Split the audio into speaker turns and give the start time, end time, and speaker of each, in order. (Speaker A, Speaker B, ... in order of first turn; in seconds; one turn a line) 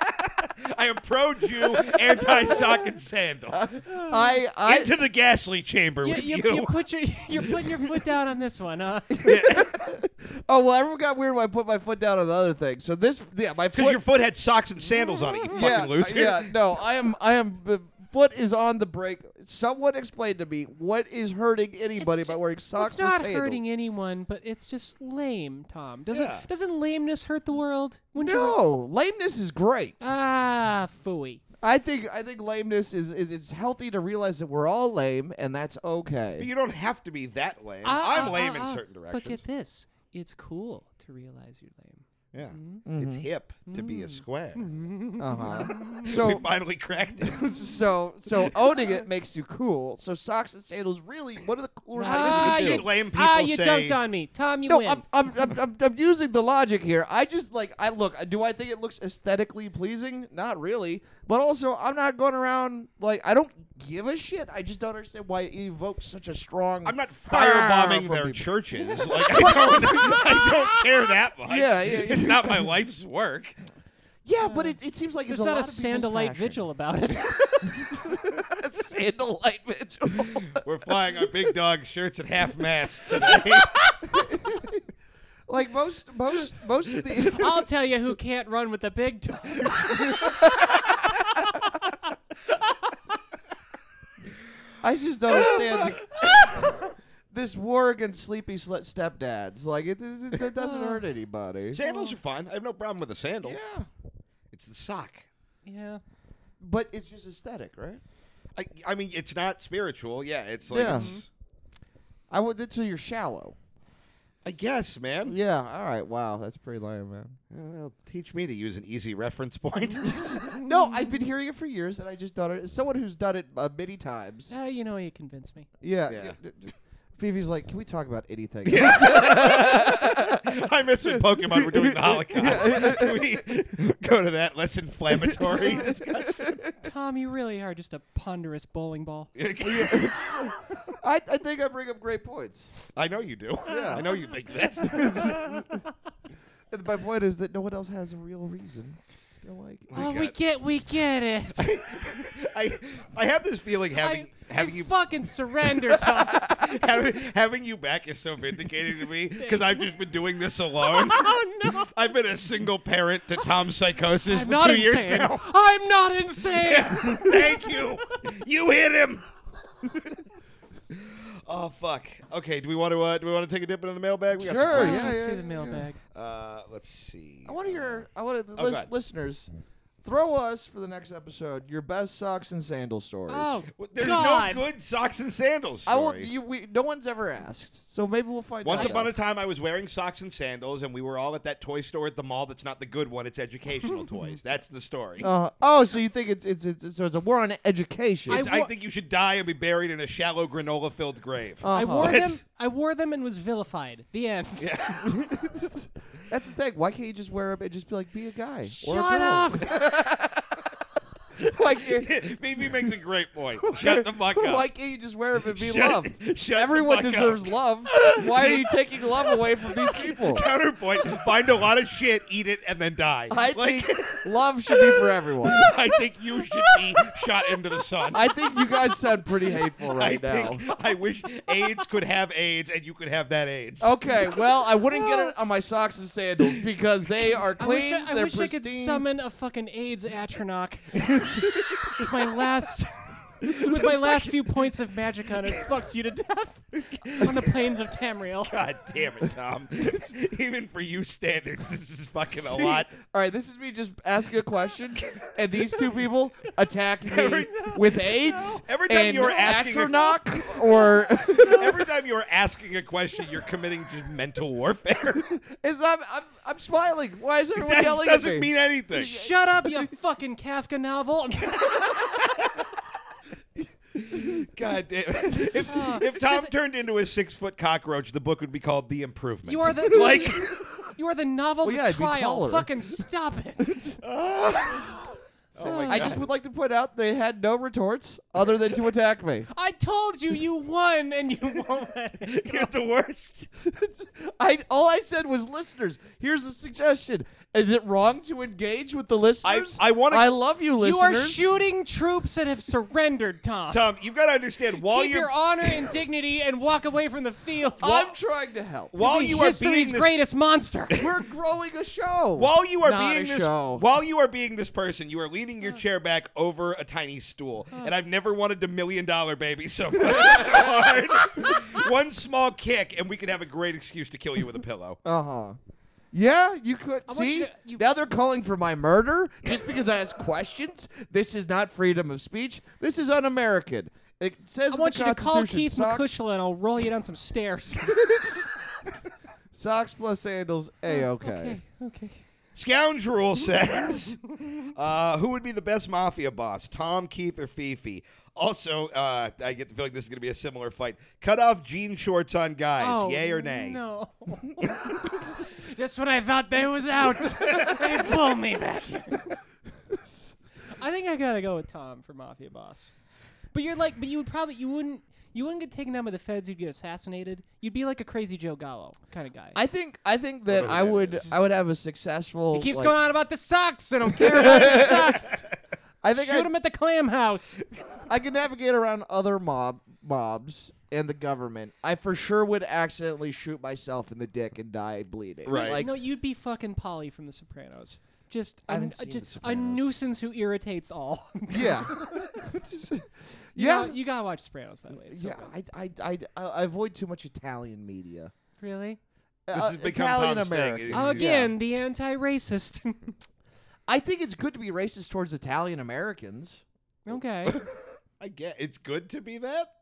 Speaker A: 0.2-3.7
Speaker B: 2.2-2.8
Speaker C: 3.5-4.9
Speaker B: 3.9-4.3
Speaker A: 4.6-6.8
Speaker B: 6.0-9.3
Speaker C: 9.2-14.0
Speaker A: 9.2-9.8
Speaker A: 13.7-16.5
Speaker B: 15.0-15.5
Speaker C: 15.5-23.6
Speaker B: 22.0-28.6
Speaker A: 26.1-26.5
Speaker C: 28.1-29.9
Speaker B: 30.0-31.4
Speaker C: 31.6-36.5
Speaker A: 36.4-39.4
Speaker B: 37.8-42.8
Speaker A: 42.3-44.7
Speaker C: 42.8-43.3
Speaker B: 43.7-46.1
Speaker C: 45.2-46.5
Speaker A: 45.9-47.5
Speaker C: 47.2-52.9
Speaker B: 52.0-55.0
Speaker A: 52.0-54.0
Speaker C: 54.6-70.5
Speaker A: 66.8-73.6
Speaker B: 69.4-70.8
Speaker C: 71.5-72.7
Speaker C: 74.2-76.6
Speaker B: 74.4-74.8
Speaker B: 75.3-77.9
Speaker C: 77.6-80.6
Speaker A: 80.1-83.9
Speaker C: 83.2-83.4
Speaker C: 84.0-84.8
Speaker C: 85.5-87.6
Speaker B: 87.3-92.1
Speaker C: 90.2-90.8
Speaker C: 94.8-96.8
Speaker A: 95.3-96.7
Speaker C: 97.3-101.8
Speaker B: 100.5-101.0
Speaker A: 101.7-103.6
Speaker B: 101.8-102.2
Speaker C: 103.4-103.9
Speaker A: 104.5-105.3
Speaker B: 105.6-106.0
Speaker C: 106.6-108.0
Speaker A: 108.5-111.2
Speaker C: 110.7-111.2
Speaker B: 110.8-111.2
Speaker C: 112.3-113.5
Speaker A: 114.4-115.3
Speaker C: 115.2-117.4
Speaker A: 117.5-120.4
Speaker C: 120.0-124.5
Speaker B: 120.1-120.7
Speaker B: 124.5-125.7
Speaker C: 125.8-133.4
Speaker A: 126.1-126.3
Speaker A: 128.6-136.6
Speaker C: 135.1-136.8
Speaker B: 135.6-135.9
Speaker B: 136.8-139.3
Speaker A: 139.3-140.5
Speaker C: 139.6-142.7
Speaker A: 142.9-145.5
Speaker C: 143.7-144.1
Speaker B: 143.8-144.3
Speaker B: 144.8-145.8
Speaker C: 144.8-145.8
Speaker C: 146.7-150.1
Speaker A: 149.9-150.3
Speaker B: 149.9-152.3
Speaker A: 151.5-155.1
Speaker B: 154.0-156.6
Speaker A: 156.4-165.4
Speaker B: 159.3-160.0
Speaker B: 160.8-161.9
Speaker B: 164.2-168.2
Speaker A: 166.5-169.2
Speaker A: 170.9-175.2
Speaker C: 174.4-175.9
Speaker B: 174.7-176.0
Speaker A: 176.1-178.0
Speaker C: 177.4-179.5
Speaker A: 178.6-178.9
Speaker C: 180.0-183.6
Speaker B: 183.3-184.6
Speaker A: 183.8-186.3
Speaker C: 185.8-189.1
Speaker A: 188.6-195.3
Speaker B: 188.7-189.0
Speaker B: 193.9-194.3
Speaker C: 195.2-198.4
Speaker B: 198.3-198.7
Speaker A: 198.3-202.4
Speaker C: 201.6-202.2
Speaker B: 201.7-204.7
Speaker A: 204.6-205.2
Speaker C: 205.0-210.6
Speaker B: 208.7-209.7
Speaker C: 211.4-212.1
Speaker A: 211.4-214.7
Speaker C: 213.7-220.4
Speaker A: 215.5-218.7
Speaker A: 219.9-228.3
Speaker C: 223.3-225.7
Speaker B: 226.4-226.9
Speaker B: 227.8-228.9
Speaker C: 228.1-230.6
Speaker A: 229.9-234.0
Speaker B: 231.5-231.8
Speaker C: 233.8-239.0
Speaker B: 234.9-235.2
Speaker B: 237.6-248.6
Speaker A: 243.5-244.3
Speaker A: 246.8-247.7
Speaker A: 248.4-252.9
Speaker C: 252.3-261.9
Speaker A: 255.0-255.3
Speaker A: 257.0-265.3
Speaker B: 258.3-258.6
Speaker B: 261.2-261.6
Speaker C: 265.2-268.5
Speaker A: 267.6-269.3
Speaker B: 268.9-272.4
Speaker C: 273.6-274.5
Speaker A: 273.9-280.7
Speaker C: 275.4-275.7
Speaker B: 275.6-276.5
Speaker B: 279.4-283.9
Speaker C: 281.6-282.7
Speaker C: 283.6-284.0
Speaker A: 284.0-286.2
Speaker B: 285.6-286.2
Speaker C: 285.7-289.5
Speaker B: 289.5-292.7
Speaker A: 292.2-293.5
Speaker C: 293.6-301.5
Speaker A: 299.4-300.3
Speaker B: 300.8-303.8
Speaker A: 303.7-305.9
Speaker B: 304.8-308.1
Speaker C: 307.8-308.9
Speaker A: 308.9-310.1
Speaker B: 309.0-311.0
Speaker C: 310.9-313.8
Speaker A: 312.4-325.0
Speaker C: 320.0-320.9
Speaker B: 320.1-320.6
Speaker C: 325.0-325.6
Speaker C: 326.1-336.2
Speaker B: 327.1-327.9
Speaker B: 334.7-338.1
Speaker C: 337.9-338.5
Speaker C: 339.5-341.6
Speaker B: 340.9-342.2
Speaker A: 342.5-353.8
Speaker B: 352.8-359.4
Speaker A: 354.6-354.9
Speaker B: 360.7-362.9
Speaker B: 363.5-369.6
Speaker C: 369.5-372.9
Speaker A: 370.5-371.3
Speaker B: 372.5-375.5
Speaker C: 374.2-375.1
Speaker C: 376.0-376.5
Speaker B: 376.1-377.6
Speaker C: 378.1-385.9
Speaker A: 385.4-385.9
Speaker B: 385.5-392.4
Speaker C: 388.7-389.9
Speaker C: 391.5-394.0
Speaker B: 393.6-395.5
Speaker C: 394.9-398.3
Speaker B: 398.6-399.0
Speaker C: 399.4-401.5
Speaker A: 399.5-401.1
Speaker B: 400.9-403.1
Speaker C: 403.9-406.6
Speaker B: 407.1-407.6
Speaker A: 407.4-409.7